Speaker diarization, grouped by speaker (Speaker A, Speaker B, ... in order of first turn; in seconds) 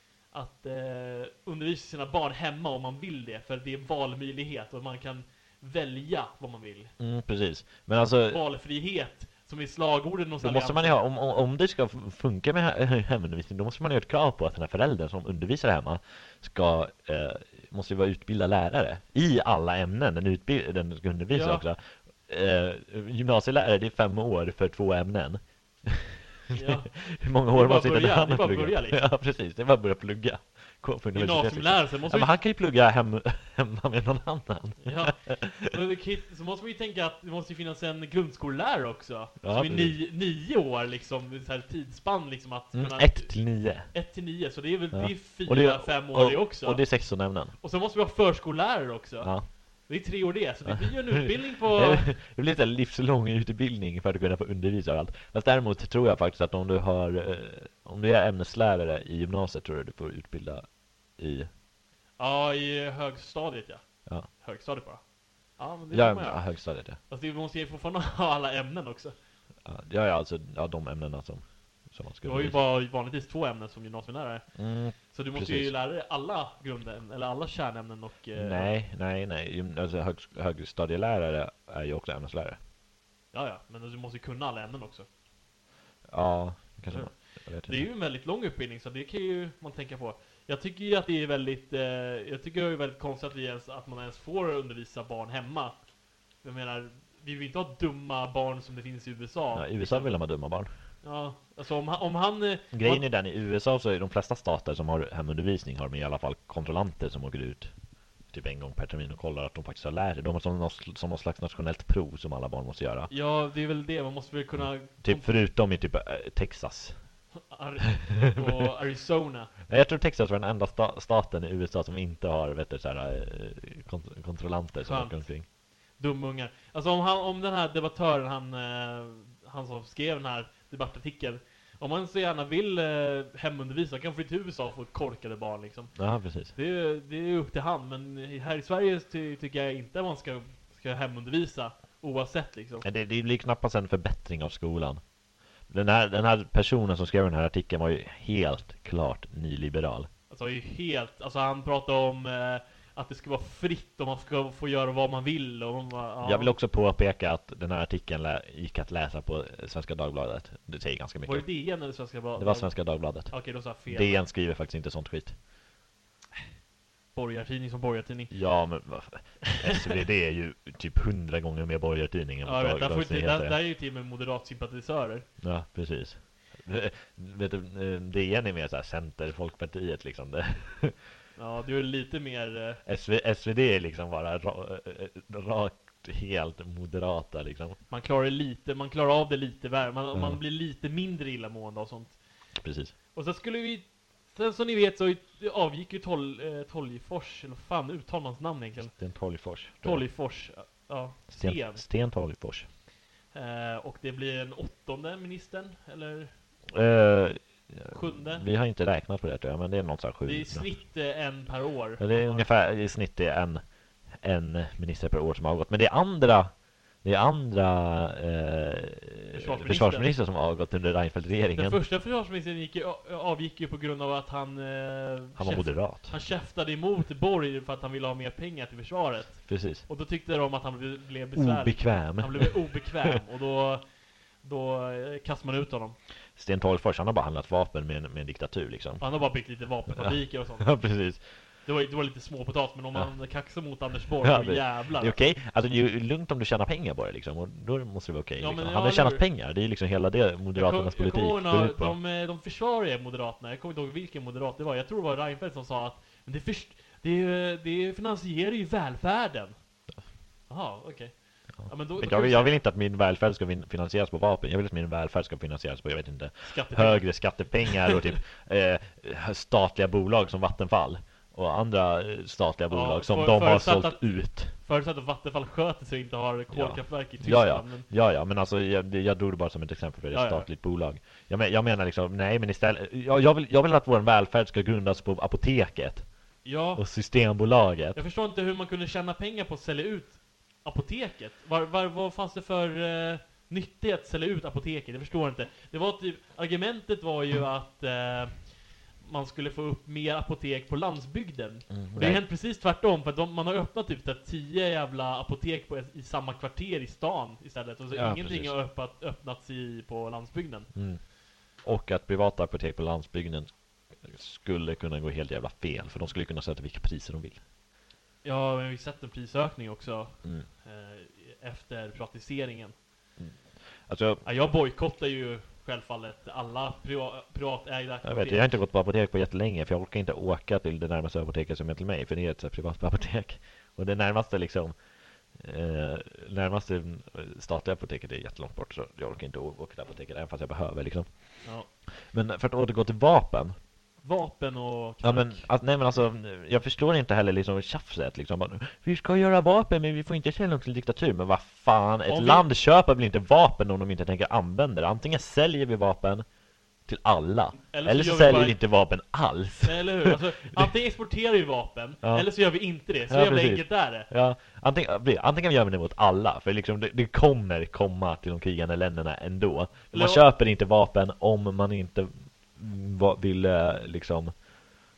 Speaker A: 0.3-6.9, 8.3-11.3, 21.3-21.6, 26.5-29.0, 31.1-32.3, 34.8-52.1, 62.2-69.1, 72.2-78.7, 83.3-85.0, 86.9-95.8, 96.4-100.2, 101.0-103.0, 113.1-115.4, 117.5-119.5, 124.8-142.8, 150.3-156.5, 161.2-164.2, 167.1-168.6, 172.4-175.3, 181.3-182.8, 187.9-192.2, 193.1-201.8, 203.3-206.3, 207.9-208.4, 210.2-212.5, 219.3-220.1, 221.5-233.9, 234.4-236.0, 239.0-245.2, 248.4-249.2, 250.5-259.5, 260.5-262.6, 266.4-267.9, 272.7-277.9, 280.1-280.5, 286.4-286.9, 287.9-310.7, 318.2-322.7, 324.2-328.5, 341.4-341.7, 344.0-345.5, 352.1-352.5, 357.7-358.6, 359.6-364.1, 369.9-370.2
Speaker B: 7.0-8.4, 10.4-26.1, 27.1-35.5, 39.4-40.0, 42.7-43.9, 44.9-47.5, 49.2-49.5, 50.6-61.5, 65.9-67.0, 69.6-72.6, 74.5-75.7, 78.3-82.6, 86.1-87.9, 99.5-100.7, 102.7-113.1, 114.6-117.0, 119.7-125.5, 136.0-136.5, 142.8-145.0, 145.7-150.1, 156.2-161.7, 162.3-165.4, 168.3-173.6, 175.4-181.0, 182.8-187.8, 190.1-190.4, 192.6-192.9, 198.8-200.1, 201.3-202.7, 206.7-210.7, 212.0-221.8, 225.3-226.1, 229.5-229.9, 231.3-232.9, 236.3-239.1, 239.9-241.2, 244.2-251.9, 261.6-274.5, 276.5-288.0, 301.7-302.2, 307.9-308.6, 310.7-317.4, 323.2-324.2, 328.0-334.8, 335.3-341.4, 342.1-343.5, 345.0-356.2, 356.8-360.1, 362.8-374.6